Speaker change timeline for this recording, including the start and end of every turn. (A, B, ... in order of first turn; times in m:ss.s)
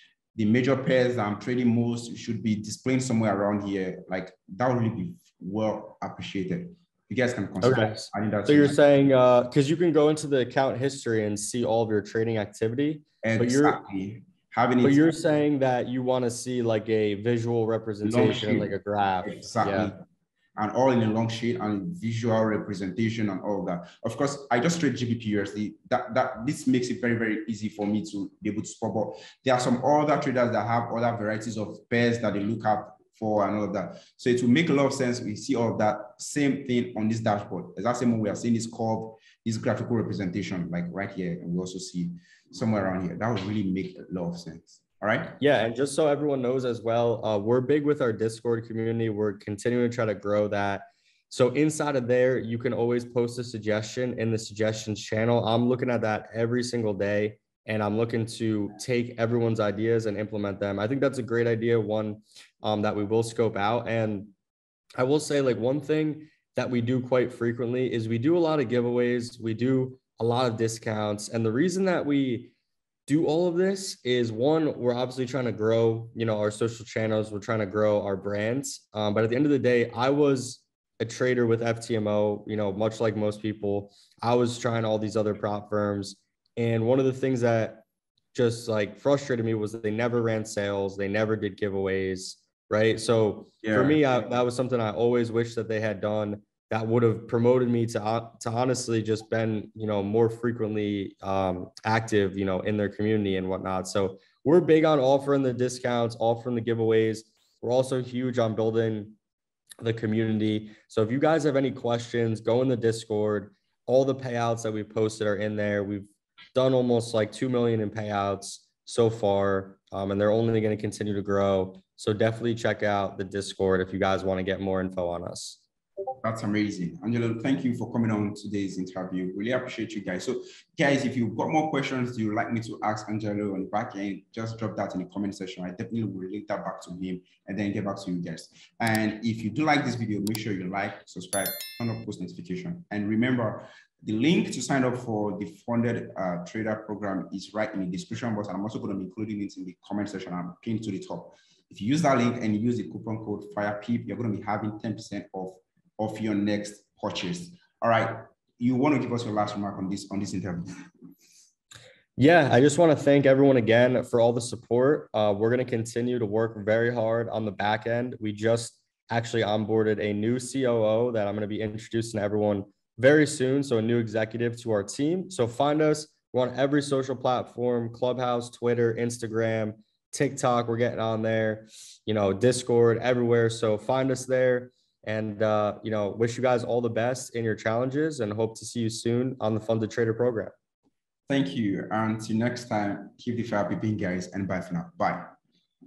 0:00.3-0:08.8 A
0:07.6-0:13.8 B
0:13.2-0:15.1 A
0:14.8-0:19.9 B
0:18.0-0:20.0 A
0:20.6-0:45.4 A
0:45.4-1:04.3 B
1:05.0-1:12.5 B
1:13.1-1:49.2 B
1:33.6-1:34.0 A
1:49.8-2:05.6 B
2:06.2-2:40.8 A
2:42.2-3:10.5 B
3:11.3-3:15.3 A